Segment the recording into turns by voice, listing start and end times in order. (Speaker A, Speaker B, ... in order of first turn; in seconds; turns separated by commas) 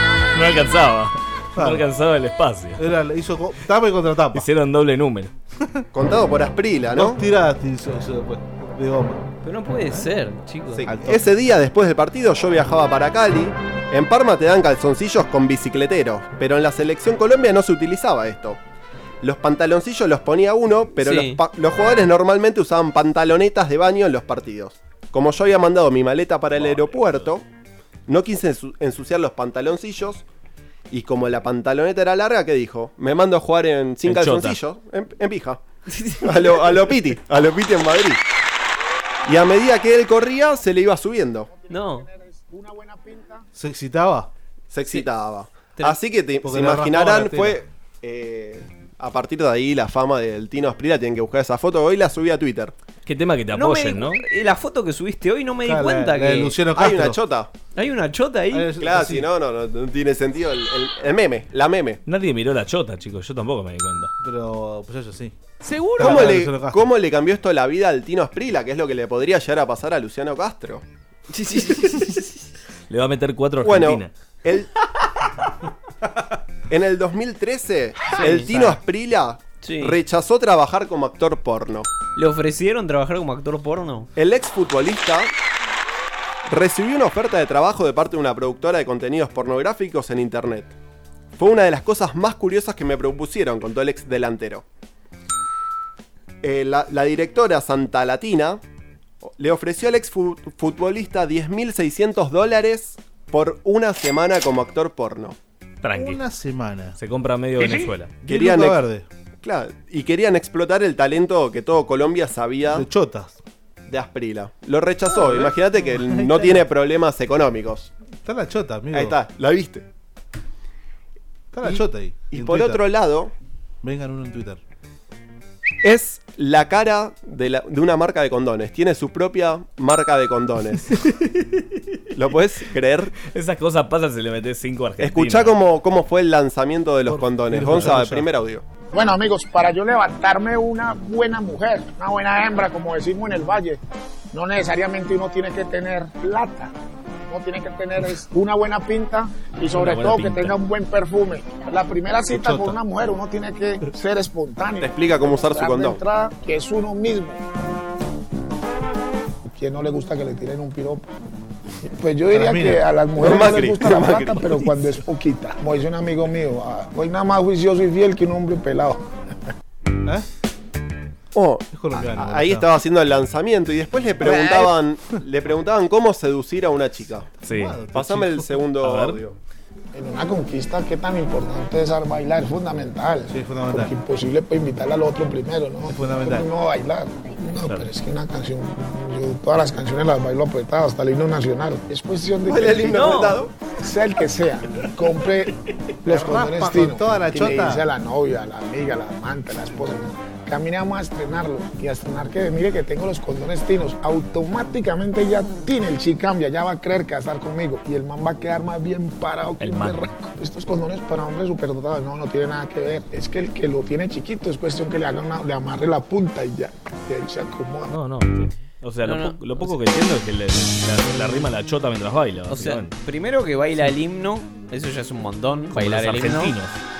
Speaker A: 0.3-2.9, Speaker B: 1.5-1.9, Speaker B: 2.8-4.5, Speaker A: 4.3-5.3, Speaker C: 5.9-7.2, Speaker B: 6.9-9.2, Speaker D: 9.4-10.8, Speaker C: 10.8-18.6, Speaker B: 10.8-11.3, Speaker C: 19.2-27.4, Speaker D: 21.0-21.4, Speaker A: 26.6-27.3, Speaker C: 28.1-30.2, Speaker C: 30.9-35.6, Speaker A: 34.0-34.6, Speaker D: 35.9-36.5, Speaker C: 36.2-38.2, Speaker C: 39.3-41.5, Speaker E: 41.5-43.5, Speaker D: 41.7-42.1, Speaker B: 43.5-44.3, Speaker C: 44.7-52.7, Speaker B: 46.4-47.6, Speaker A: 53.0-54.2, Speaker D: 53.5-56.5, Speaker B: 55.6-57.2, Speaker C: 56.7-57.5, Speaker D: 57.7-58.7, Speaker B: 58.5-59.3, Speaker C: 58.8-62.0, Speaker A: 62.0-64.1, Speaker B: 64.2-65.3, Speaker B: 65.9-66.9, Speaker C: 66.0-70.8, Speaker D: 71.3-72.2, Speaker A: 72.9-74.1, Speaker C: 73.6-74.7, Speaker C: 76.7-81.9, Speaker D: 78.1-78.5, Speaker D: 79.6-80.0, Speaker D: 82.1-84.1, Speaker C: 84.2-85.3, Speaker C: 86.5-90.7, Speaker C: 91.4-94.6, Speaker C: 96.4-98.6, Speaker C: 99.2-105.3, Speaker A: 105.8-106.2, Speaker B: 105.9-107.0, Speaker A: 107.0-108.1, Speaker B: 108.2-109.0, Speaker C: 108.2-108.8, Speaker C: 109.4-112.8, Speaker B: 112.7-113.4, Speaker C: 113.9-117.9, Speaker B: 115.2-115.5, Speaker B: 118.2-119.2, Speaker C: 118.9-119.8, Speaker B: 121.5-122.8, Speaker C: 122.3-123.3, Speaker B: 123.8-124.6, Speaker C: 125.8-130.9, Speaker A: 131.0-131.8, Speaker C: 132.1-133.1, Speaker A: 133.2-135.6, Speaker C: 135.0-138.6, Speaker B: 137.1-138.3, Speaker E: 138.9-143.8, Speaker E: 144.3-146.7, Speaker E: 147.3-157.4, Speaker A: 149.7-150.5, Speaker B: 152.3-152.8, Speaker C: 154.8-156.0, Speaker E: 159.5-161.1, Speaker E: 161.8-169.1, Speaker B: 162.3-162.8, Speaker C: 163.2-164.7, Speaker C: 171.3-177.3, Speaker B: 171.7-172.7, Speaker B: 177.4-178.6, Speaker A: 177.4-177.8, Speaker C: 177.9-179.3, Speaker A: 178.8-179.2, Speaker E: 179.9-193.2, Speaker B: 183.3-183.9, Speaker B: 185.8-186.5, Speaker A: 187.6-187.9, Speaker C: 192.4-193.5, Speaker D: 192.9-193.3, Speaker E: 193.8-217.9, Speaker B: 196.0-197.9, Speaker A: 209.6-210.1, Speaker A: 217.9-222.9, Speaker D: 219.0-219.7, Speaker D: 222.5-226.5, Speaker A: 225.7-226.8